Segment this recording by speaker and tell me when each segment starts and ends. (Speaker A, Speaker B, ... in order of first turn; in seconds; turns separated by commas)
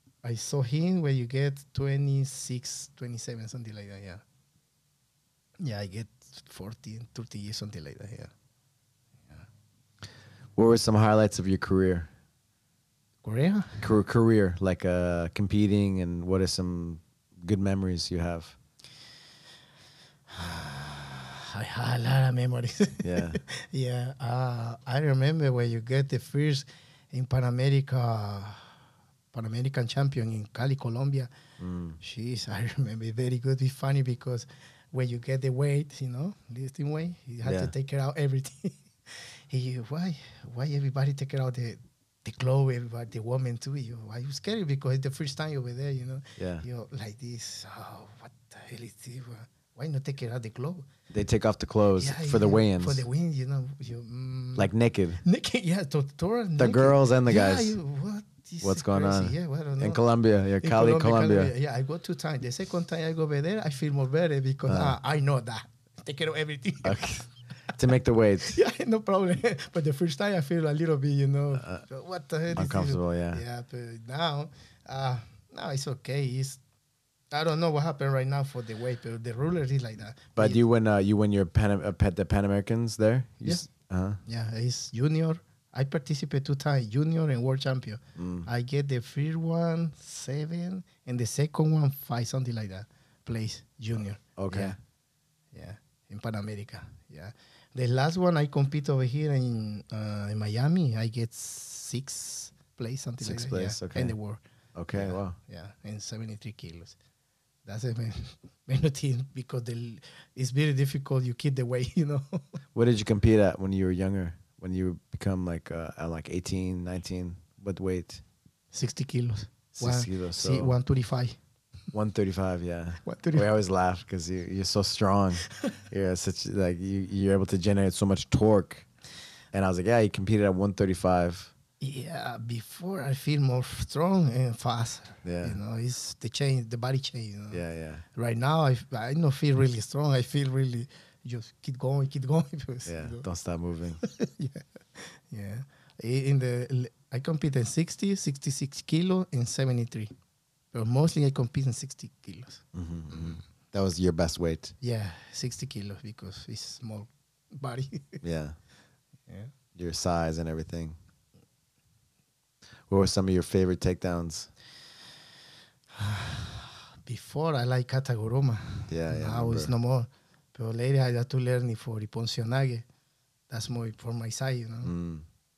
Speaker A: 0.2-4.2, Speaker A: 5.6-8.3, Speaker B: 10.6-12.1, Speaker A: 13.2-13.8, Speaker B: 13.8-18.6, Speaker A: 20.3-28.7, Speaker B: 23.0-23.4, Speaker A: 29.3-31.3, Speaker B: 31.6-32.0, Speaker A: 32.0-50.9, Speaker B: 37.4-37.7, Speaker B: 46.4-46.6, Speaker B: 51.1-53.0, Speaker A: 52.0-60.0, Speaker B: 54.6-55.2, Speaker B: 56.6-57.8, Speaker B: 58.6-61.5, Speaker A: 60.6-67.2, Speaker B: 64.7-65.0, Speaker B: 66.8-68.6, Speaker A: 68.4-76.6, Speaker B: 71.6-71.8, Speaker B: 72.5-73.4, Speaker A: 77.3-80.6, Speaker B: 80.4-84.2, Speaker A: 84.3-94.8, Speaker B: 88.2-88.5, Speaker B: 94.4-94.8, Speaker A: 95.5-104.4, Speaker B: 103.2-104.2, Speaker B: 104.8-105.4, Speaker A: 104.9-107.0, Speaker A: 107.7-112.4, Speaker B: 112.8-118.2, Speaker A: 118.7-121.4, Speaker B: 119.8-120.8, Speaker B: 121.9-128.9, Speaker A: 123.0-123.5, Speaker B: 129.5-131.5, Speaker A: 131.8-137.6, Speaker B: 135.2-135.6, Speaker B: 137.5-138.0, Speaker A: 138.2-143.2, Speaker B: 142.9-144.0, Speaker A: 144.0-150.1, Speaker A: 150.7-153.4, Speaker B: 152.7-154.7, Speaker A: 154.8-158.2, Speaker B: 158.2-158.6, Speaker A: 159.3-159.5, Speaker B: 159.8-161.0, Speaker B: 162.9-164.5, Speaker A: 165.9-172.8, Speaker B: 168.9-169.7, Speaker A: 173.5-174.9, Speaker B: 174.8-175.2